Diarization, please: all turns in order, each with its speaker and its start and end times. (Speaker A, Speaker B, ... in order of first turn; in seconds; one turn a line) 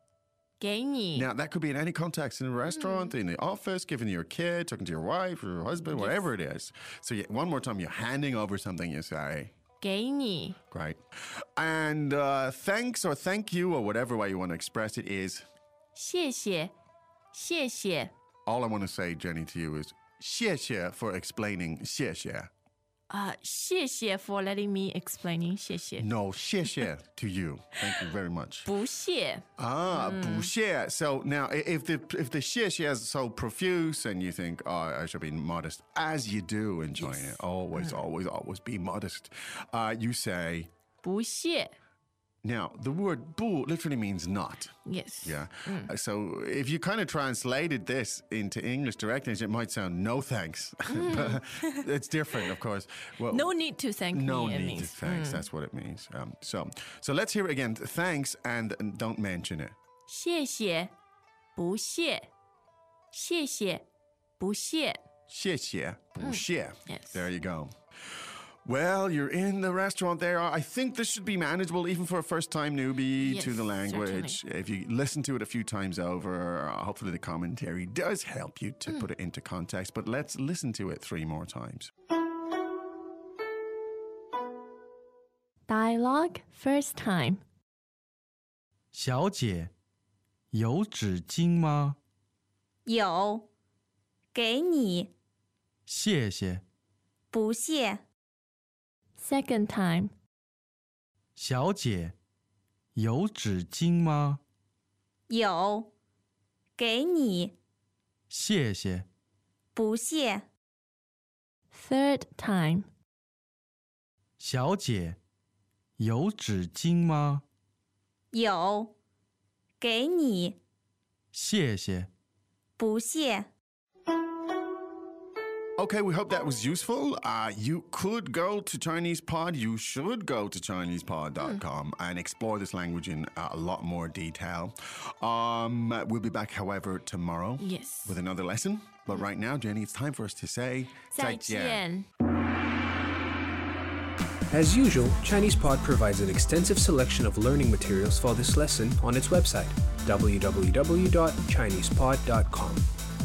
Speaker A: 0.6-1.3
Speaker B: 1.1-9.5
Speaker A: 2.7-3.1
Speaker A: 5.9-6.3
Speaker A: 9.8-10.6
Speaker B: 10.7-15.4
Speaker A: 15.9-16.7
Speaker A: 17.3-18.1
Speaker B: 18.5-22.5
Speaker A: 23.1-26.1
Speaker B: 26.0-28.7
Speaker A: 28.6-30.5
Speaker B: 29.6-40.7
Speaker A: 37.0-38.0
Speaker A: 41.0-41.7
Speaker B: 42.4-53.5
Speaker A: 44.9-45.9
Speaker A: 50.9-51.8
Speaker A: 53.3-55.5
Speaker B: 54.1-59.8
Speaker A: 60.1-60.9
Speaker A: 61.5-62.3
Speaker A: 63.1-63.8
Speaker A: 64.4-65.0
Speaker B: 65.3-67.7
Speaker A: 66.2-67.3
Speaker B: 68.7-81.9
Speaker A: 73.2-74.4
Speaker A: 85.7-87.4
Speaker C: 88.9-89.7
Speaker C: 90.5-92.0
Speaker D: 92.9-93.5
Speaker D: 94.3-95.1
Speaker C: 95.9-96.6
Speaker D: 97.3-98.0
Speaker A: 99.2-100.1
Speaker C: 101.4-102.2
Speaker C: 103.0-104.4
Speaker D: 105.3-105.9
Speaker D: 106.8-107.5
Speaker C: 108.3-109.1
Speaker D: 109.8-110.5
Speaker A: 111.7-112.9
Speaker C: 114.4-115.2
Speaker C: 116.0-117.5
Speaker D: 118.3-118.9
Speaker D: 119.8-120.6
Speaker C: 121.3-122.1
Speaker D: 122.8-123.5
Speaker B: 125.8-141.8
Speaker A: 137.6-138.2
Speaker A: 141.1-142.1
Speaker E: 144.5-152.8